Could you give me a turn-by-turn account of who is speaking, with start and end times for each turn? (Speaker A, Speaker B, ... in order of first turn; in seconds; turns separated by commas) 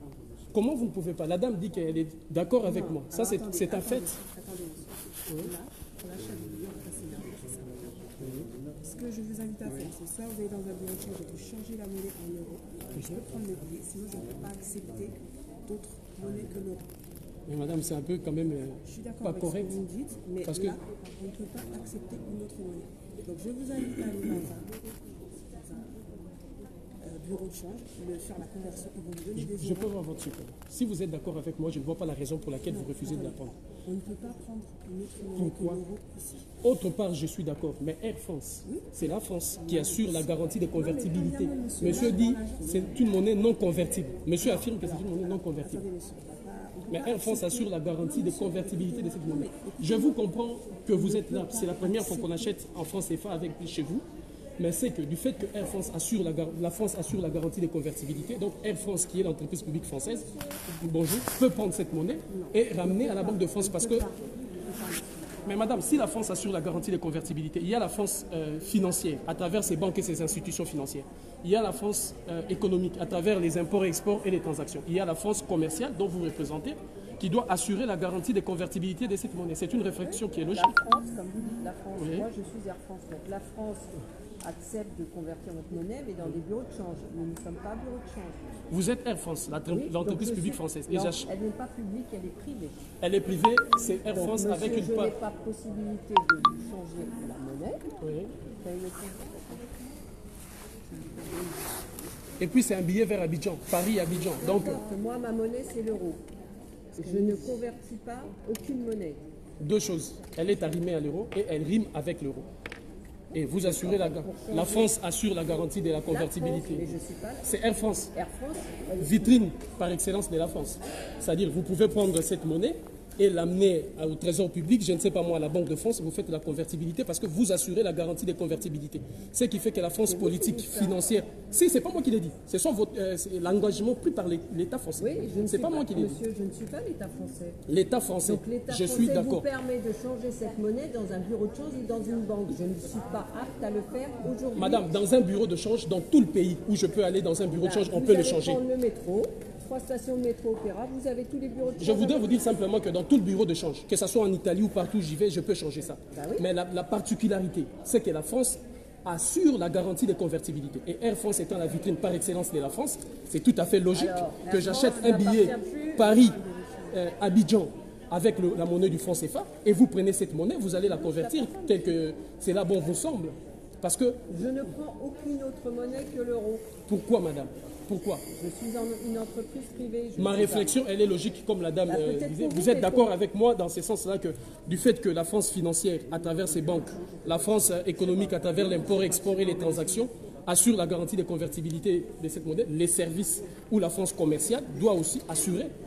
Speaker A: 0.5-4.1, Speaker B: 2.6-8.1, Speaker A: 5.3-5.5, Speaker A: 8.2-8.5, Speaker B: 8.8-16.9, Speaker A: 12.9-13.2, Speaker A: 17.5-19.8, Speaker B: 18.9-26.1, Speaker A: 20.4-20.8, Speaker B: 27.0-29.9, Speaker A: 29.4-33.6, Speaker B: 32.7-36.5, Speaker A: 35.4-35.8, Speaker A: 36.6-45.8, Speaker B: 39.6-43.0, Speaker B: 44.4-50.2, Speaker A: 46.9-54.0, Speaker B: 50.9-52.5, Speaker A: 54.6-64.1, Speaker B: 62.3-65.6, Speaker A: 65.5-80.8, Speaker C: 80.0-88.4, Speaker A: 82.0-82.3, Speaker A: 88.7-91.3, Speaker C: 89.7-92.8, Speaker A: 93.0-95.1, Speaker C: 94.1-97.9, Speaker A: 98.0-98.3, Speaker C: 98.6-99.7, Speaker B: 100.9-101.8, Speaker A: 102.4-104.8, Speaker C: 104.4-106.2, Speaker C: 107.0-109.2, Speaker B: 107.0-107.6, Speaker A: 109.6-112.5, Speaker A: 113.3-116.9, Speaker C: 113.4-114.9, Speaker C: 116.1-117.5, Speaker A: 117.4-118.1, Speaker C: 118.1-119.4, Speaker A: 119.0-136.2, Speaker C: 130.1-131.1, Speaker C: 135.0-137.6, Speaker A: 137.7-139.5, Speaker C: 138.2-144.9, Speaker A: 144.6-148.6, Speaker C: 147.5-152.5, Speaker A: 151.8-166.4, Speaker C: 156.1-156.5, Speaker C: 163.9-167.0, Speaker A: 166.9-174.2, Speaker C: 170.8-171.9, Speaker C: 174.3-176.7, Speaker A: 176.9-178.2, Speaker C: 178.3-180.7, Speaker A: 180.2-195.7, Speaker C: 181.9-183.1